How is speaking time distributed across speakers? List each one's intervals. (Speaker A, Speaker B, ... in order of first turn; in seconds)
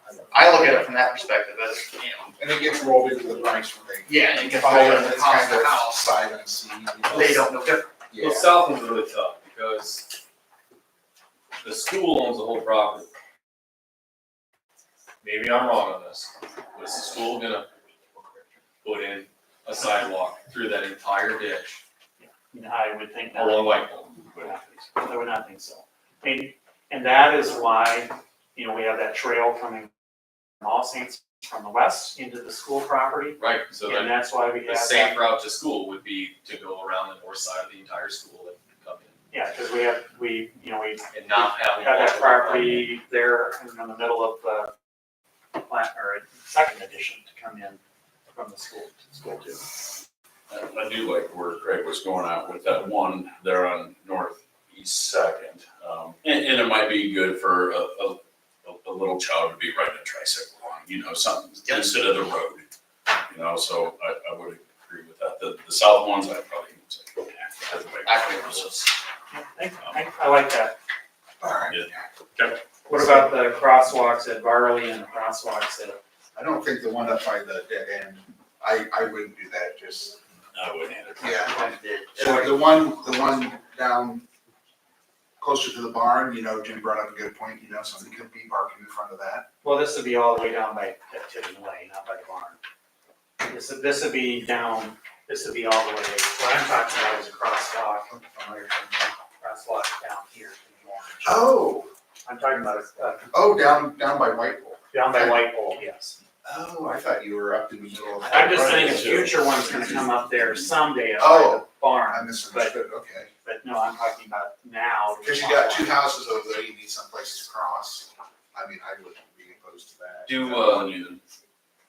Speaker A: 0.3-2.3, 4.0-6.1, 7.1-8.0, 61.6-61.9, 68.0-68.9, 81.2-82.5
Speaker B: 2.4-7.5, 8.1-8.5, 71.4-72.1, 72.9-73.3, 76.3-80.2, 81.2-84.2, 85.4-89.5, 98.1-99.1, 101.2-101.9, 103.3-105.5, 106.4-109.4, 111.2-113.3, 115.2-120.8
Speaker C: 8.2-10.1, 11.6-13.1, 15.2-17.7, 18.8-21.8, 23.3-24.4, 33.4-39.1, 41.1-42.9, 120.2-120.9
Speaker D: 22.2-23.8, 24.4-29.9, 30.6-35.2, 39.3-44.7, 45.5-47.8, 48.3-49.1, 69.3-70.8, 72.8-76.0, 89.6-92.6, 93.5-101.5, 102.2-103.3, 104.9-106.2, 108.3-112.8, 113.4-115.9
Speaker E: 49.1-49.6, 50.5-62.7, 63.3-68.9, 71.7-72.6, 80.5-81.5, 108.8-110.7, 120.6-121.2